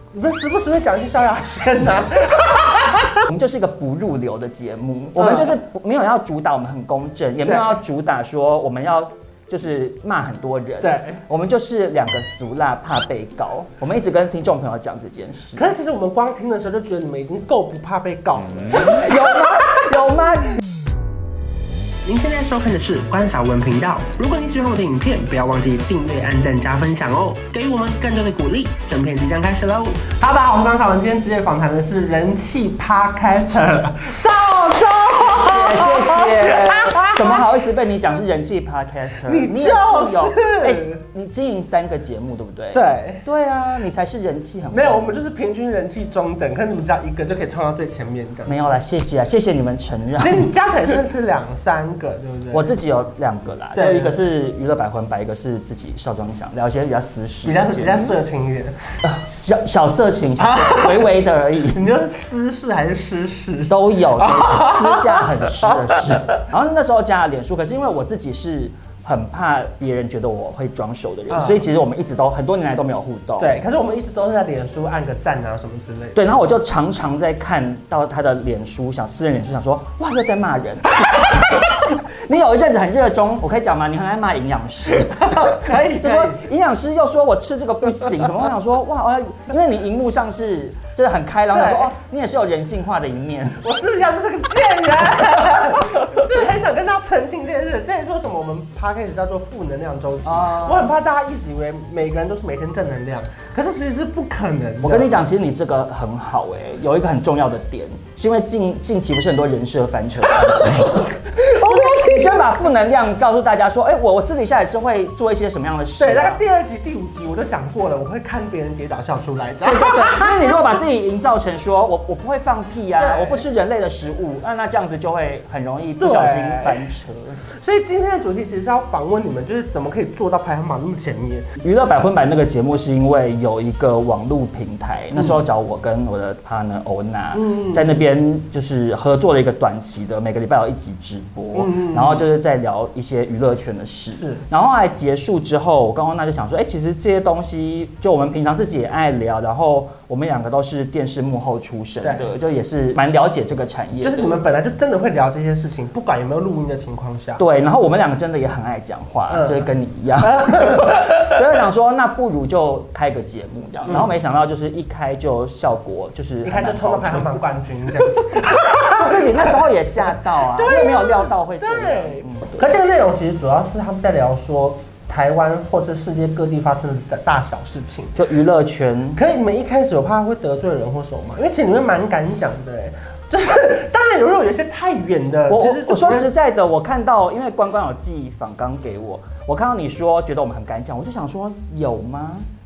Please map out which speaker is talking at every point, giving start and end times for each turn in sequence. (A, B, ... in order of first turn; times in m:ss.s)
0:00.1-0:03.3 A
0:03.3-0:15.7 B
0:05.1-0:05.6 A
0:07.4-0:07.8 A
0:10.8-0:11.2 A
0:15.5-0:19.8 A
0:18.8-0:20.6 B
0:22.0-0:37.5 A
0:35.2-0:45.2 B
0:39.2-0:41.0 A
0:42.7-0:43.2 A
0:44.7-0:48.8 A
0:48.5-0:50.5 B
0:50.2-0:52.7 A
0:52.5-0:58.2 B
0:53.7-0:54.2 A
0:57.4-0:58.8 A
0:59.0-1:01.8 B
1:00.4-1:01.2 A
1:01.7-1:06.4 A
1:03.7-1:13.6 B
1:11.3-1:11.7 A
1:13.4-1:16.2 A
1:16.2-1:33.6 B
1:25.0-1:26.4 A
1:31.5-1:31.9 A
1:33.6-1:45.2 A
1:40.2-1:40.9 B
1:44.8-1:56.4 B
1:50.4-1:52.8 A
1:56.0-2:00.8 A
1:59.6-2:07.4 B
2:03.0-2:03.5 A
2:06.0-2:06.9 A
2:07.6-2:11.4 A
2:11.6-2:34.3 B
2:17.3-2:18.0 A
2:21.5-2:22.2 A
2:24.1-2:24.4 A
2:32.0-2:32.3 A
2:34.0-2:37.4 A
2:37.4-2:47.4 B
2:39.3-2:41.4 A
2:43.8-2:44.1 A
2:46.4-2:58.2 A
2:48.8-2:52.7 B
2:58.2-2:59.2 B
2:59.1-3:06.3 A
3:05.5-3:12.4 B